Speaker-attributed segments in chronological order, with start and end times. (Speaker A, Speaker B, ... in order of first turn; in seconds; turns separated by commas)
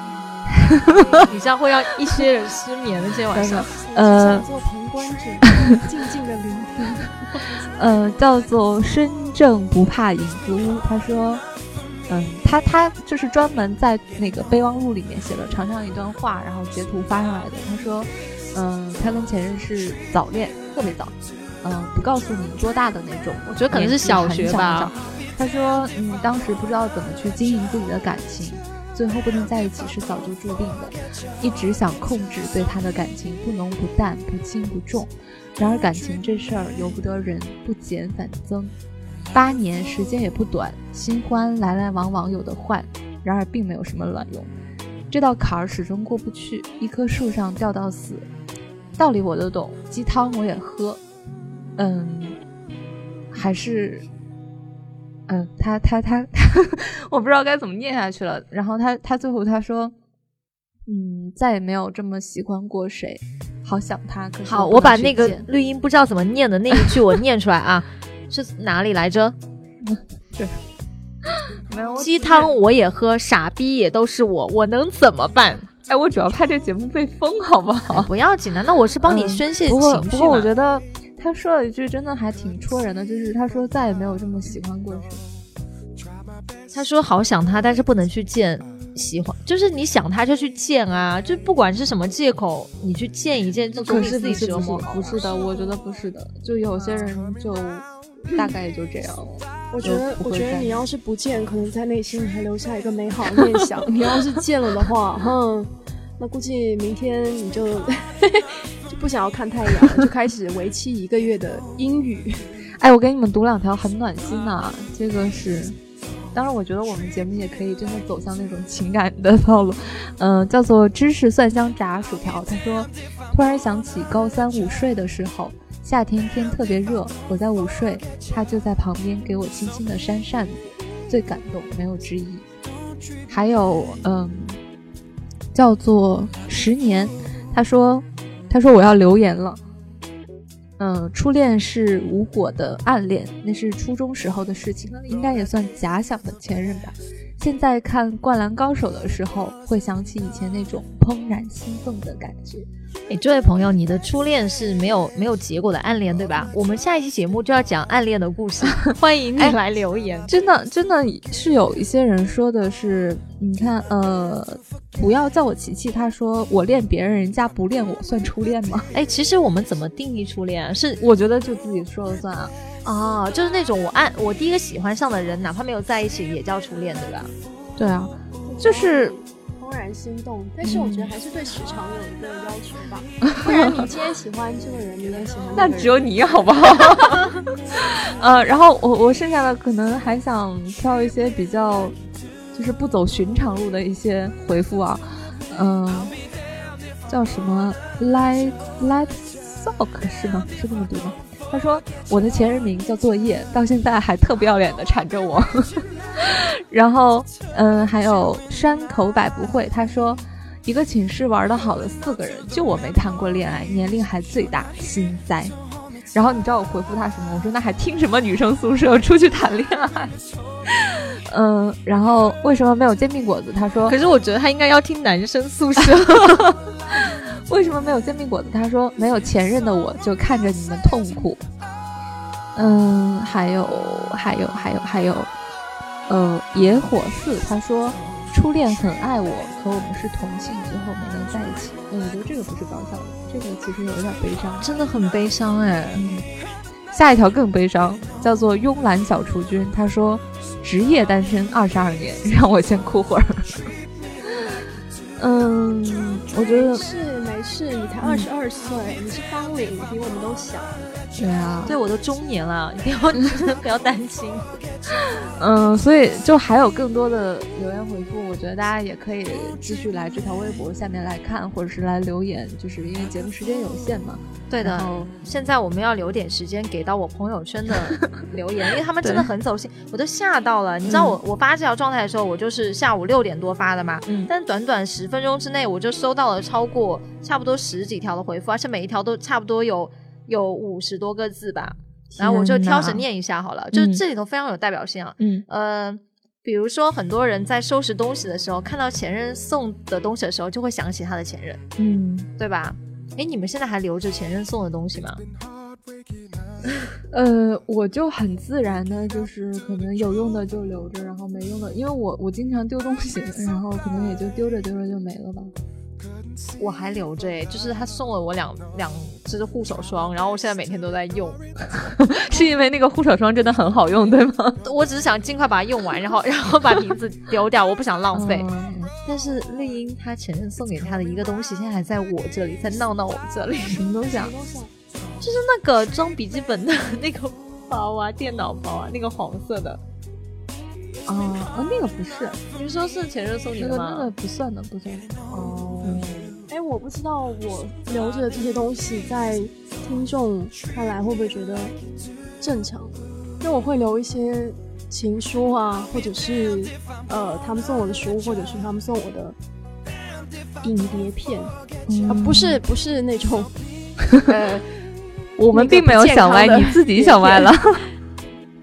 Speaker A: 0.5-1.1, Speaker B: 1.2-3.7, Speaker A: 3.3-4.5, Speaker C: 3.8-7.4, Speaker A: 7.8-11.4, Speaker A: 12.1-38.7, Speaker B: 23.5-24.9, Speaker A: 39.3-44.5, Speaker A: 45.1-48.3, Speaker A: 49.0-51.0, Speaker A: 51.8-52.4, Speaker A: 53.3-54.1, Speaker A: 55.3-59.9, Speaker A: 60.9-65.5, Speaker B: 64.5-69.4, Speaker A: 69.9-70.6, Speaker A: 71.3-72.5, Speaker B: 72.0-75.7, Speaker A: 75.9-78.1, Speaker B: 77.9-80.5, Speaker A: 79.0-85.2, Speaker B: 86.7-95.3, Speaker A: 93.8-100.8, Speaker C: 99.7-112.5, Speaker A: 103.8-104.4, Speaker A: 112.8-115.8, Speaker A: 116.3-132.5, Speaker A: 133.3-134.6, Speaker A: 135.5-139.6, Speaker A: 140.8-152.7, Speaker B: 153.1-160.3, Speaker A: 160.3-168.9, Speaker B: 168.9-171.0, Speaker A: 171.0-172.5, Speaker B: 172.8-177.3, Speaker A: 177.8-179.1, Speaker C: 178.5-186.1, Speaker A: 180.6-181.1, Speaker A: 183.3-183.7, Speaker A: 185.6-191.9, Speaker A: 192.5-196.1, Speaker A: 197.1-215.5, Speaker A: 216.1-220.2, Speaker A: 220.7-224.0, Speaker B: 223.9-226.5, Speaker A: 226.1-231.4, Speaker A: 232.6-235.3, Speaker A: 236.1-244.7, Speaker B: 244.6-246.1, Speaker A: 245.9-246.3, Speaker A: 246.9-253.7, Speaker A: 255.2-256.8, Speaker C: 256.4-260.9, Speaker A: 261.2-261.7, Speaker B: 261.6-264.5, Speaker A: 265.4-275.1, Speaker B: 274.5-301.6, Speaker A: 279.0-279.3, Speaker A: 280.9-281.1, Speaker A: 292.1-293.0, Speaker A: 293.7-294.0, Speaker A: 301.8-302.3, Speaker B: 302.4-305.2, Speaker A: 307.1-315.5, Speaker B: 316.6-321.4, Speaker A: 321.8-324.6, Speaker B: 324.6-328.5, Speaker A: 328.1-328.9, Speaker B: 329.1-333.8, Speaker A: 333.7-334.3, Speaker C: 334.1-334.7, Speaker B: 335.2-339.8, Speaker A: 341.1-342.4, Speaker B: 342.5-344.1, Speaker A: 343.6-345.1, Speaker B: 345.3-346.4, Speaker C: 346.5-351.7, Speaker C: 352.4-359.4, Speaker C: 360.6-361.5, Speaker A: 361.9-362.6, Speaker C: 362.1-363.5, Speaker C: 364.1-364.8, Speaker A: 365.4-367.8, Speaker C: 365.5-367.6